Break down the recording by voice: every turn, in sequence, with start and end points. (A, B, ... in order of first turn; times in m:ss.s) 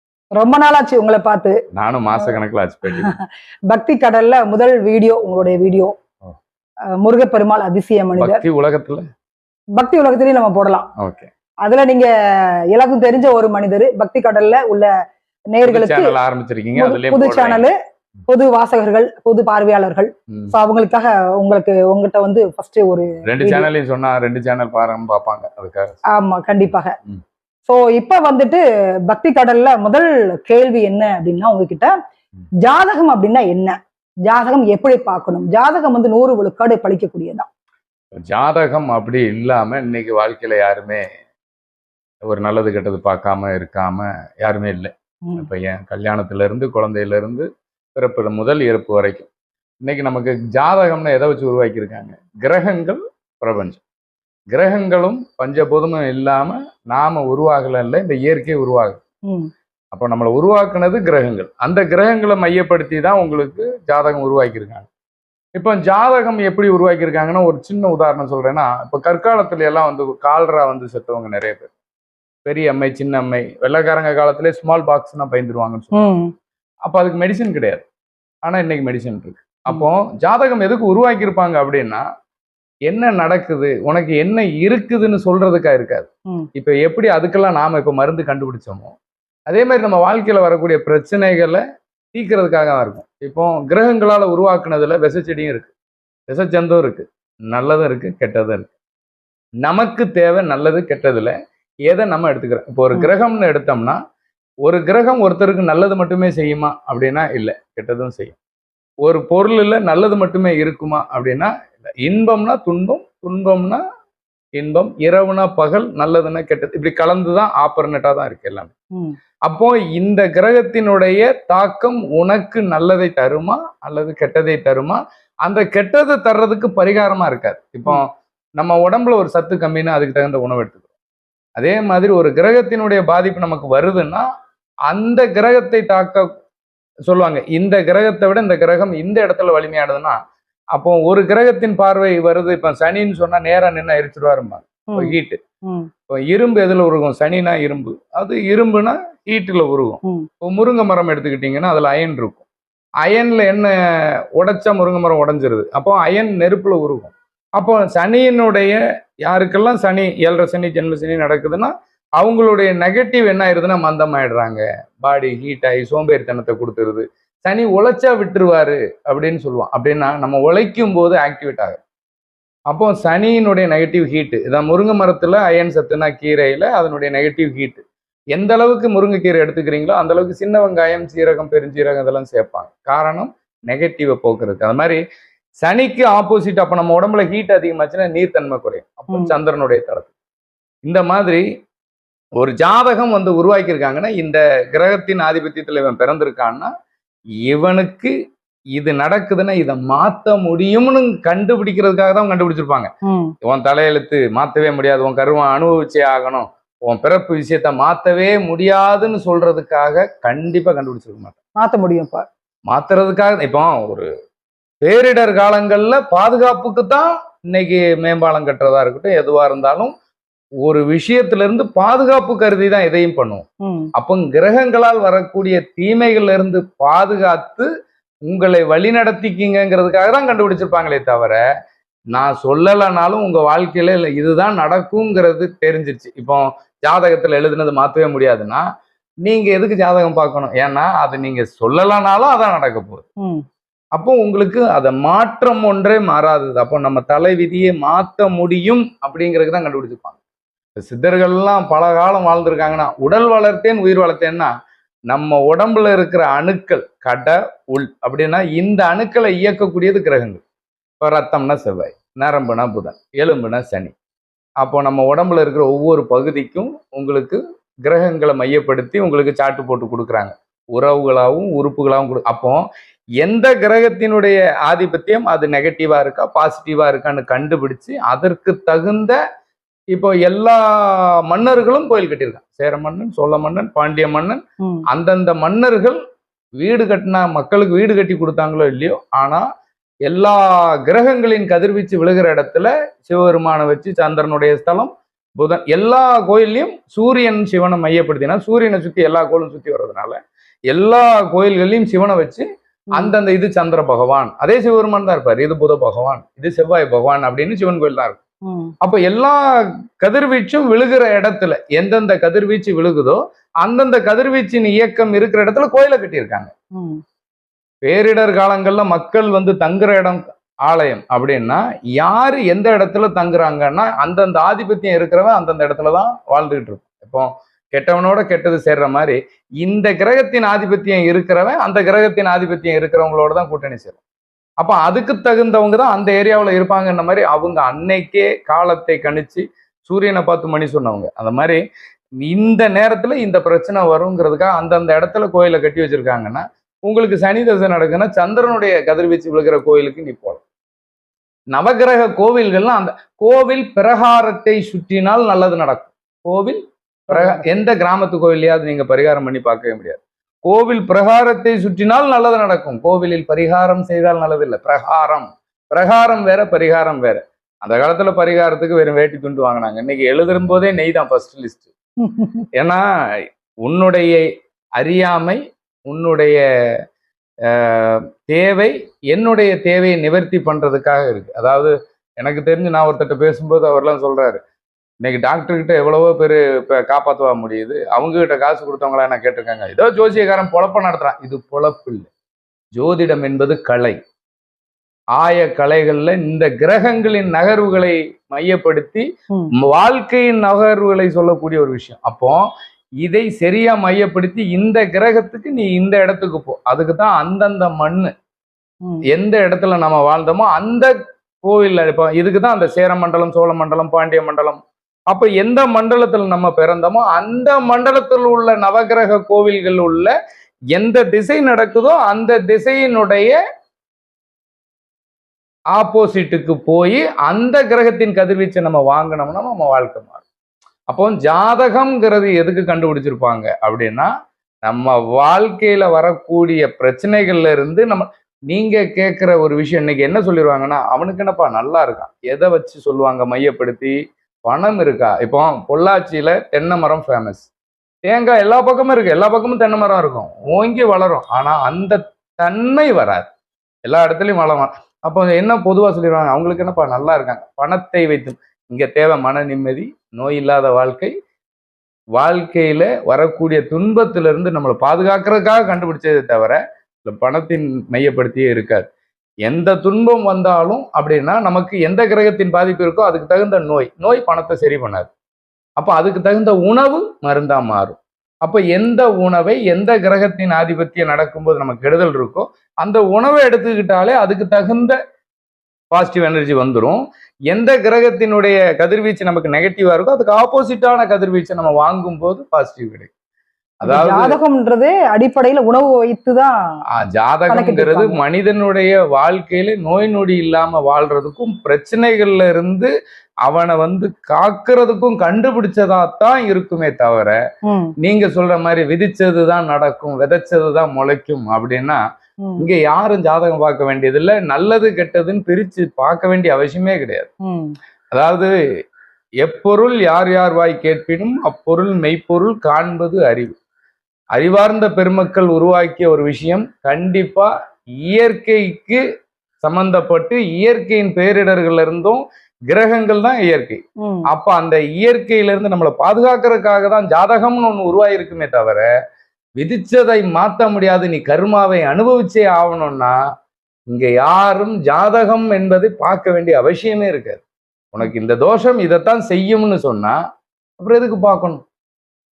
0:00.4-0:01.6 A
0:01.7-0:03.1 B
0:02.9-0:05.9 A
0:07.0-0:08.4 A
0:08.2-0:09.0 B
0:09.8-0:10.9 A
0:11.0-0:11.3 B
0:11.6-0:12.1 A
0:12.7-0:14.9 A
0:15.5-0:16.1 A
0:15.6-0:17.6 B
0:16.8-0:17.7 A
0:18.3-0:23.7 A
0:23.2-0:26.0 B
0:26.1-0:26.9 A
0:27.7-0:31.9 A
0:32.6-0:33.7 A
0:34.3-0:37.5 A
0:38.1-0:41.0 B
0:42.2-0:49.3 B
0:49.8-0:53.8 B
0:54.5-0:59.0 B
0:59.9-1:04.9 B
1:05.5-1:11.7 B
1:12.4-1:16.1 B
1:15.9-1:16.3 A
1:16.8-1:17.8 B
1:18.4-1:22.0 B
1:22.9-1:29.0 B
1:29.5-1:31.6 B
1:32.1-1:35.7 B
1:36.3-1:38.7 B
1:39.6-1:41.3 B
1:41.8-1:44.0 B
1:44.6-1:48.4 B
1:49.0-1:53.8 B
1:54.6-1:58.7 B
1:59.4-2:08.0 B
2:08.6-2:10.8 B
2:11.6-2:14.2 B
2:14.9-2:16.2 B
2:17.1-2:20.2 B
2:20.7-2:25.4 B
2:24.9-2:25.1 A
2:26.1-2:32.4 B
2:33.0-2:33.7 B
2:34.4-2:51.8 B
2:52.7-3:05.0 B
3:05.6-3:10.1 B
3:10.8-3:11.4 B
3:12.4-3:16.7 B
3:17.4-3:18.1 B
3:18.7-3:22.9 B
3:23.4-3:31.3 B
3:31.6-3:32.2 A
3:32.7-3:34.0 B
3:34.8-3:39.9 B
3:40.6-3:43.4 B
3:43.6-3:43.9 A
3:44.0-3:47.7 B
3:48.3-3:51.4 B
3:52.1-3:58.6 B
3:59.2-4:03.1 B
4:03.9-4:10.2 B
4:10.8-4:14.5 B
4:15.1-4:20.4 B
4:21.0-4:23.9 B
4:24.6-4:32.6 B
4:33.2-4:39.2 B
4:39.9-4:46.0 B
4:46.6-4:49.4 B
4:50.0-5:00.2 B
5:00.7-5:08.2 B
5:08.5-5:08.7 A
5:08.8-5:09.4 B
5:10.0-5:16.5 B
5:16.8-5:17.0 A
5:17.8-5:34.0 B
5:34.6-5:41.6 B
5:42.2-5:50.4 B
5:51.5-6:11.7 B
5:57.1-5:57.4 A
6:12.0-6:12.4 A
6:12.5-6:14.2 B
6:14.8-6:16.4 B
6:17.4-6:24.4 B
6:25.0-6:32.1 B
6:32.7-6:34.0 B
6:35.2-6:39.0 B
6:39.6-6:42.4 B
6:43.0-6:48.1 B
6:49.1-7:00.1 B
7:00.7-7:03.4 B
7:05.7-7:10.2 B
7:10.9-7:14.1 B
7:14.6-7:23.9 B
7:24.4-7:27.5 B
7:28.0-7:33.3 B
7:33.8-7:41.1 B
7:42.1-7:48.9 B
7:49.4-7:55.1 B
7:55.8-8:05.0 B
8:05.9-8:07.0 B
8:07.5-8:13.1 B
8:13.8-8:14.4 B
8:13.8-8:16.5 A
8:16.9-8:22.9 B
8:17.5-8:18.2 A
8:23.4-8:27.4 B
8:27.6-8:27.9 A
8:28.0-8:32.0 B
8:32.6-8:37.3 B
8:37.4-8:37.7 A
8:38.1-8:38.5 B
8:39.4-8:43.5 B
8:44.3-8:47.5 B
8:48.0-8:49.0 B
8:49.6-8:58.8 B
8:54.0-8:54.3 A
8:59.6-9:03.2 B
9:03.9-9:10.2 B
9:10.8-9:11.6 B